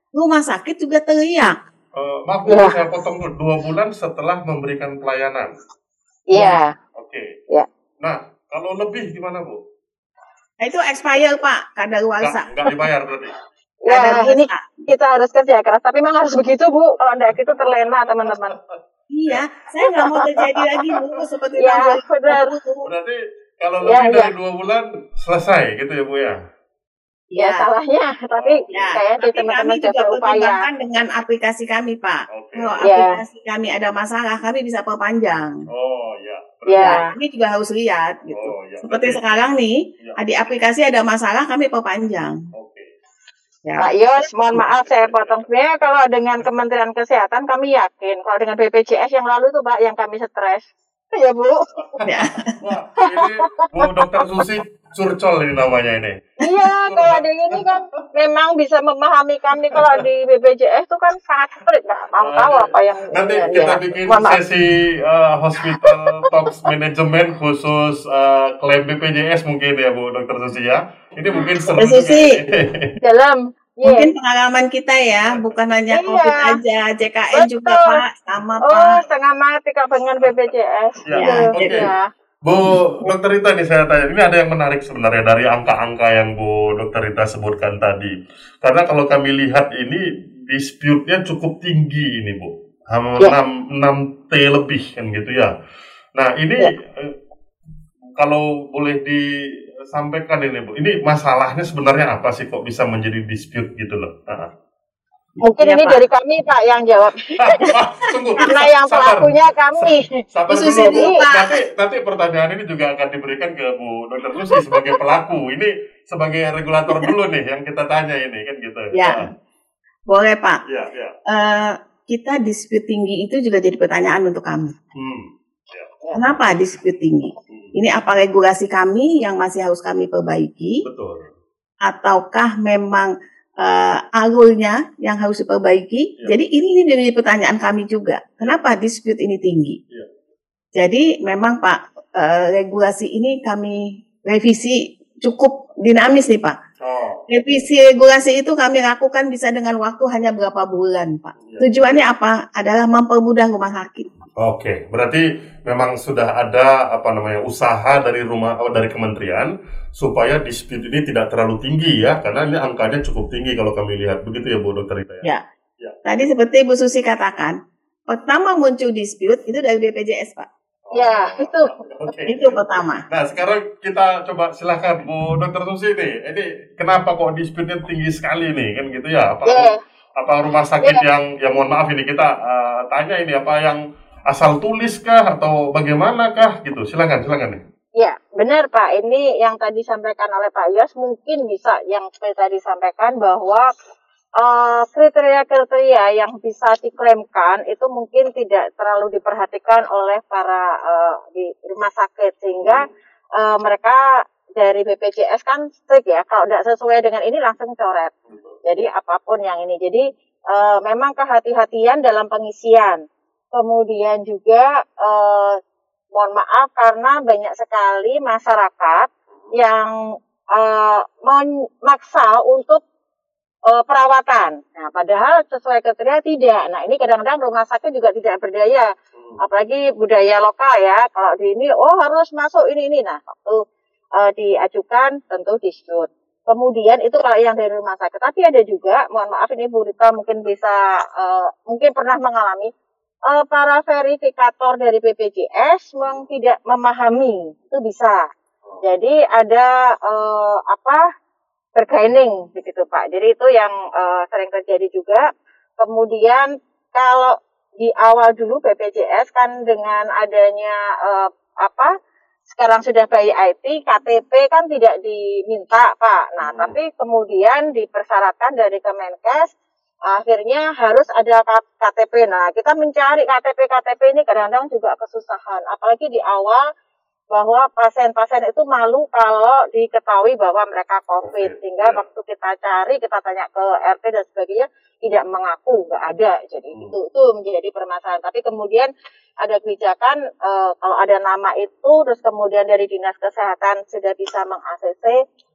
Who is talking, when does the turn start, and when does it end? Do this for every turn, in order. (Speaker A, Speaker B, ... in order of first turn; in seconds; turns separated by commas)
Speaker A: 0.1-1.5, Speaker B: 1.9-5.5, Speaker C: 2.5-2.8, Speaker C: 6.3-6.7, Speaker A: 6.3-6.6, Speaker B: 7.0-7.3, Speaker B: 8.0-9.6, Speaker A: 10.6-12.5, Speaker B: 12.2-13.3, Speaker A: 13.9-14.7, Speaker C: 13.9-18.5, Speaker B: 18.2-18.8, Speaker A: 19.1-22.8, Speaker C: 19.8-20.9, Speaker C: 21.6-22.5, Speaker B: 22.9-26.4, Speaker C: 23.9-24.3, Speaker A: 27.3-27.7, Speaker C: 27.4-30.6, Speaker B: 28.4-29.0, Speaker A: 28.7-35.5, Speaker B: 32.3-32.8, Speaker C: 32.8-33.2, Speaker B: 35.7-37.0, Speaker C: 36.7-37.0, Speaker A: 36.8-42.4, Speaker B: 38.3-39.2, Speaker B: 42.5-42.9, Speaker A: 43.6-43.9, Speaker C: 43.8-51.7, Speaker B: 44.5-45.5, Speaker B: 51.8-52.0, Speaker A: 52.0-52.5, Speaker B: 52.6-58.1, Speaker C: 53.0-54.2, Speaker C: 56.4-64.4, Speaker B: 59.7-60.0, Speaker B: 62.2-73.0, Speaker C: 65.9-66.3, Speaker A: 71.8-72.3, Speaker C: 73.0-74.1, Speaker A: 73.8-79.0, Speaker C: 75.9-76.5, Speaker C: 77.3-78.0, Speaker C: 78.6-82.0, Speaker B: 80.2-80.5, Speaker B: 81.0-81.9, Speaker A: 81.1-81.8, Speaker B: 82.4-95.5, Speaker B: 96.2-97.1, Speaker B: 98.2-99.2, Speaker B: 99.9-104.5, Speaker C: 105.4-107.6, Speaker A: 105.6-106.0, Speaker B: 107.3-119.3, Speaker C: 108.4-110.2, Speaker A: 110.5-111.6, Speaker C: 110.8-111.2, Speaker C: 114.5-115.0, Speaker A: 118.9-119.2, Speaker A: 120.1-120.6, Speaker B: 120.7-121.1, Speaker A: 121.3-124.7, Speaker B: 125.0-125.9, Speaker A: 126.1-130.8, Speaker B: 130.8-131.3, Speaker A: 131.8-133.1, Speaker A: 133.6-139.8, Speaker A: 140.7-146.6, Speaker B: 146.8-147.2, Speaker A: 147.3-154.1, Speaker B: 151.4-152.0, Speaker B: 154.4-166.0, Speaker A: 166.0-167.6, Speaker A: 168.1-170.5, Speaker B: 170.8-187.6, Speaker C: 170.9-171.7, Speaker A: 172.3-173.0, Speaker C: 179.4-179.8, Speaker C: 188.0-193.7, Speaker C: 194.4-204.0, Speaker B: 202.6-202.9, Speaker C: 204.6-208.1, Speaker B: 208.3-208.6, Speaker C: 208.6-213.0, Speaker C: 213.5-215.6, Speaker C: 216.1-219.9, Speaker C: 220.5-222.8, Speaker C: 223.7-228.9, Speaker B: 229.2-229.4, Speaker C: 229.4-233.6, Speaker C: 234.2-242.7, Speaker C: 243.3-248.2, Speaker C: 248.8-251.0, Speaker C: 251.8-255.2, Speaker C: 255.8-261.9, Speaker C: 262.5-269.5, Speaker B: 266.4-266.8, Speaker C: 270.1-276.6, Speaker C: 277.3-288.9, Speaker B: 281.2-282.0, Speaker C: 289.4-295.2